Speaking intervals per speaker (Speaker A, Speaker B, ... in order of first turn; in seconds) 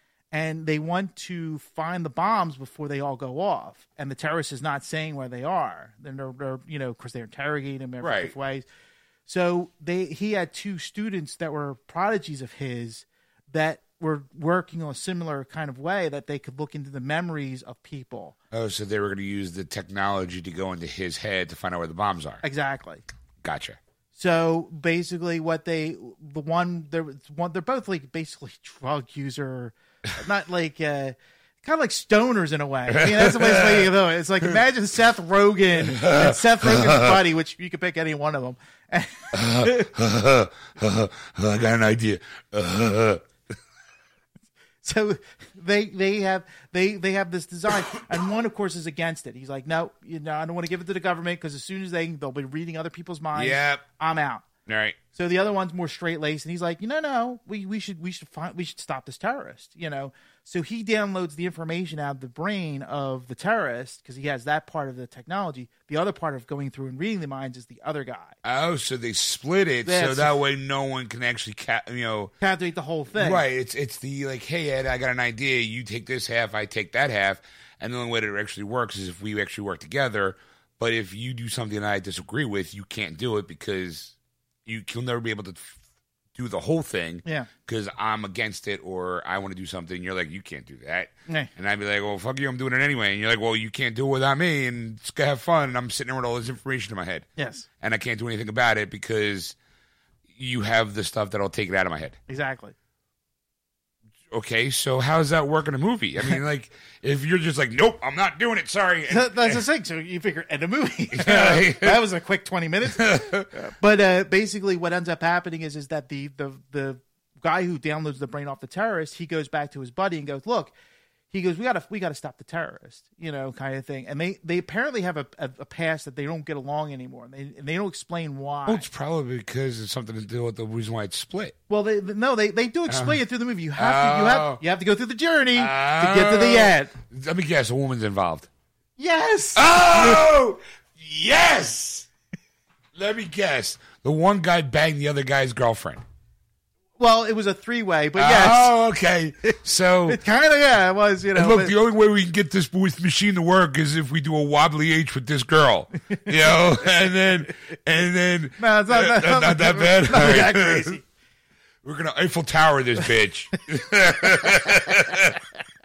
Speaker A: 0.3-8.7, 9.3-18.4, 22.4-23.0, 24.1-39.9, 44.8-54.5, 55.1-68.4, 69.8-70.4, 72.4-73.4, 97.4-97.7, 102.3-102.8, 109.1-120.7, 121.3-128.9, 131.7-136.9, 139.0-140.2, 147.0-148.7, 150.1-151.8, 158.6-161.0
Speaker B: 8.0-8.3, 18.5-22.4, 23.4-23.8, 32.9-33.9, 35.8-37.2, 39.3-43.2, 53.4-53.8, 54.7-55.0, 68.4-72.3, 73.2-84.1, 84.7-85.8, 86.3-97.3, 97.8-99.6, 100.3-102.2, 104.3-109.6, 111.1-112.0, 112.9-113.5, 128.7-131.6, 132.9-133.2, 133.8-134.6, 135.6-138.5, 139.6-142.1, 142.9-146.0, 148.2-150.2, 151.3-161.0, 161.8-165.4